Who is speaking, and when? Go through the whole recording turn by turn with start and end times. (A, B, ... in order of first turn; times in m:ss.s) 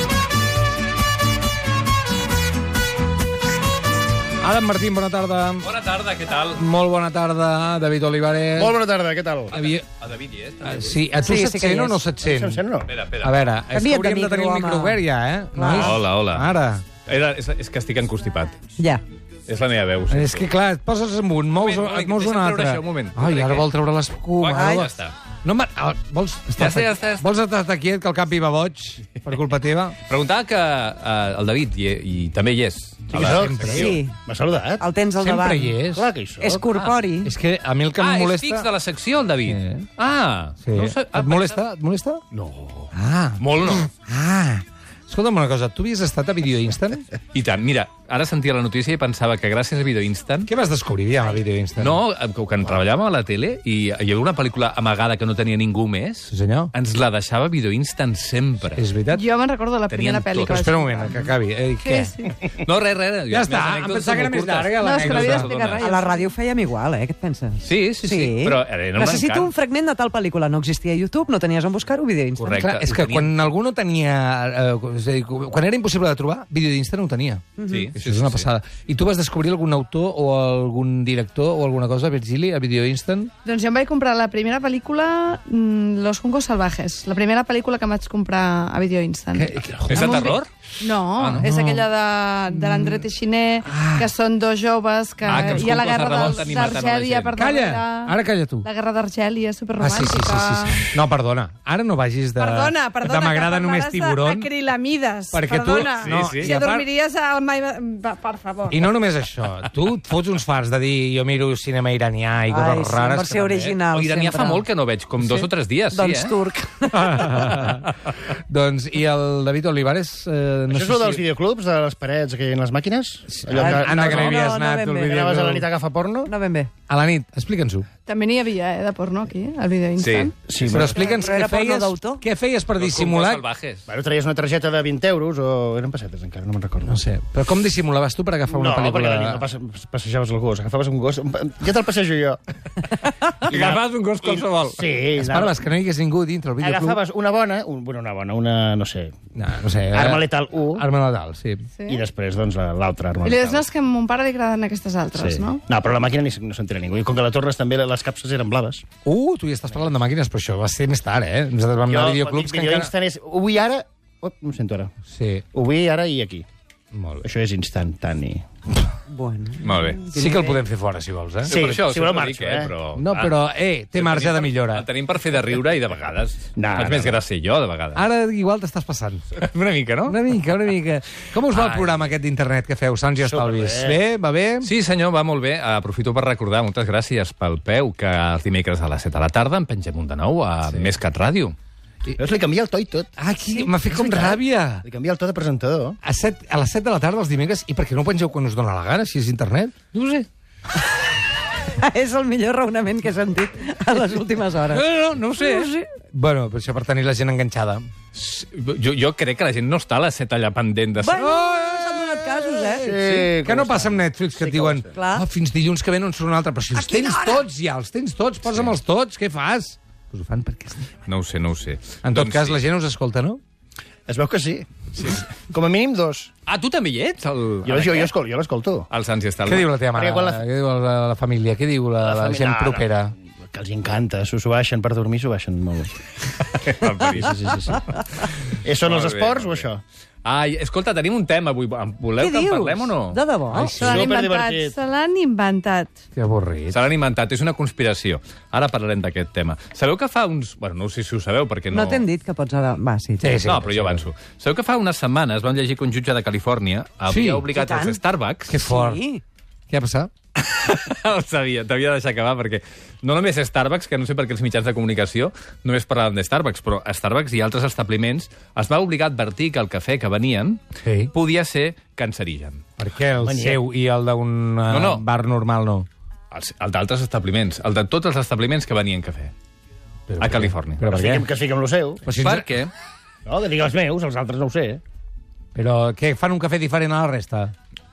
0:04.4-0:05.7 A
0:05.6-0:06.6 B
0:06.5-0:08.8 A
0:08.6-0:09.6 C
0:09.5-0:09.8 A
0:09.5-0:11.1 B
0:10.6-0:12.6 A
0:11.2-0:12.0 D
0:12.2-0:12.9 C
0:12.8-0:13.4 B
0:13.2-0:16.9 A
0:13.7-0:16.0 D
0:15.7-0:18.6 B
0:18.8-0:19.0 D
0:19.5-0:20.5 B
0:20.1-0:24.9 A
0:21.6-0:23.7 B
0:24.4-0:25.2 B
0:24.5-0:24.9 D
0:25.4-0:30.0 A
0:26.6-0:27.3 B
0:30.0-0:33.9 B
0:33.1-0:34.8 C
0:33.2-0:34.0 A
0:33.7-0:34.2 D
0:34.8-0:35.8 D
0:35.2-0:36.1 A
0:35.9-0:36.7 C
0:36.4-0:37.3 D
0:36.7-0:37.0 B
0:37.2-0:38.7 A
0:38.0-0:41.6 B
0:39.5-0:39.9 A
0:40.6-0:42.2 A
0:42.3-0:43.9 B
0:42.9-0:47.1 A
0:47.3-0:50.5 B
0:50.5-0:52.0 A
0:51.8-0:58.9 B
0:56.3-0:56.7 A
0:58.7-0:59.2 A
0:59.1-1:02.4 E
0:59.9-1:00.7 B
1:00.4-1:02.1 A
1:02.5-1:05.9 B
1:03.3-1:05.5 A
1:04.8-1:06.3 E
1:05.8-1:12.6 D
1:07.6-1:09.5 B
1:12.4-1:13.5 B
1:12.5-1:23.3 A
1:17.6-1:17.9 D
1:17.6-1:18.5 B
1:23.4-1:38.1 E
1:29.4-1:30.1 A
1:29.8-1:30.5 B
1:31.2-1:31.5 B
1:31.3-1:31.9 A
1:32.5-1:33.1 A
1:33.6-1:34.1 A
1:35.2-1:37.5 B
1:37.4-1:38.7 A
1:38.6-1:40.9 E
1:39.8-1:44.5 A
1:42.4-1:48.8 E
1:45.3-1:46.8 A
1:46.0-1:46.6 B
1:48.7-1:53.7 A
1:52.5-1:54.7 D
1:53.6-1:56.4 B
1:55.9-1:57.5 D
1:56.9-2:01.2 A
1:57.3-1:57.8 B
2:00.7-2:04.5 C
2:03.3-2:05.7 A
2:03.6-2:05.3 D
2:05.1-2:06.3 C
2:06.2-2:06.7 D
2:06.9-2:07.9 A
2:08.1-2:10.3 E
2:10.0-2:10.3 B
2:10.5-2:11.0 C
2:10.6-2:13.4 A
2:10.8-2:12.2 D
2:12.8-2:13.9 B
2:13.9-2:17.0 C
2:16.9-2:19.4 A
2:18.5-2:22.4 C
2:23.4-2:25.6 C
2:23.4-2:24.8 B
2:25.2-2:27.0 A
2:26.6-2:29.2 C
2:29.4-2:31.7 A
2:29.9-2:30.8 C
2:31.8-2:32.0 E
2:31.9-2:33.6 C
2:33.2-2:35.6 E
2:35.2-2:38.8 C
2:39.0-2:42.9 A
2:41.9-2:44.9 C
2:45.1-2:45.4 A
2:45.5-2:46.5 C
2:46.9-2:47.3 A
2:47.2-2:48.4 C
2:49.1-2:50.6 D
2:49.6-2:50.0 B
2:50.1-2:51.6 A
2:51.4-2:53.4 B
2:51.5-2:52.8 C
2:53.0-2:54.8 A
2:54.0-2:58.0 B
2:56.6-2:57.2 C
2:58.0-2:59.3 A
2:59.4-3:00.2 B
3:00.1-3:04.7 A
3:01.5-3:02.2 B
3:03.2-3:04.0 C
3:04.6-3:11.6 B
3:12.2-3:13.1 C
3:13.2-3:14.9 A
3:13.8-3:16.0 C
3:16.0-3:19.8 A
3:19.9-3:20.3 B
3:21.8-3:24.8 D
3:24.7-3:25.4 A
3:25.0-3:25.7 B
3:25.4-3:25.9 D
3:26.1-3:27.9 A
3:28.1-3:31.2 B
3:31.0-3:33.0 D
3:31.2-3:40.9 A
3:32.8-3:34.9 C
3:34.9-3:35.3 D
3:36.7-3:37.4 D
3:38.4-3:38.8 B
3:41.0-3:42.6 B
3:42.0-3:43.4 A
3:44.1-3:46.3 C
3:46.5-3:48.1 B
3:47.6-3:48.9 C
3:48.9-3:49.7 B
3:49.4-3:53.2 A
3:49.7-3:50.4 C
3:52.0-3:53.0 C
3:53.5-3:56.0 C
3:56.6-3:57.2 B
3:56.9-3:59.8 C
3:58.8-3:59.7 B
4:00.2-4:03.2 B
4:02.2-4:04.1 D
4:03.5-4:04.0 A
4:03.7-4:06.0 E
4:03.7-4:04.8 C
4:06.2-4:06.8 A
4:06.7-4:12.1 B
4:11.7-4:13.5 D
4:13.2-4:14.1 A
4:13.4-4:18.6 B
4:17.1-4:17.5 A
4:17.5-4:18.0 D
4:18.5-4:19.0 A
4:18.6-4:19.2 D
4:19.7-4:20.1 A
4:20.4-4:32.6 B
4:30.8-4:31.1 A
4:32.8-4:35.9 A
4:33.2-4:33.6 C
4:34.7-4:35.0 B
4:36.3-4:39.3 B
4:40.1-4:41.3 A
4:40.2-4:40.9 B
4:40.9-4:42.0 C
4:42.0-4:42.5 A
4:42.2-4:42.7 B
4:43.3-4:44.8 C
4:45.6-4:47.5 A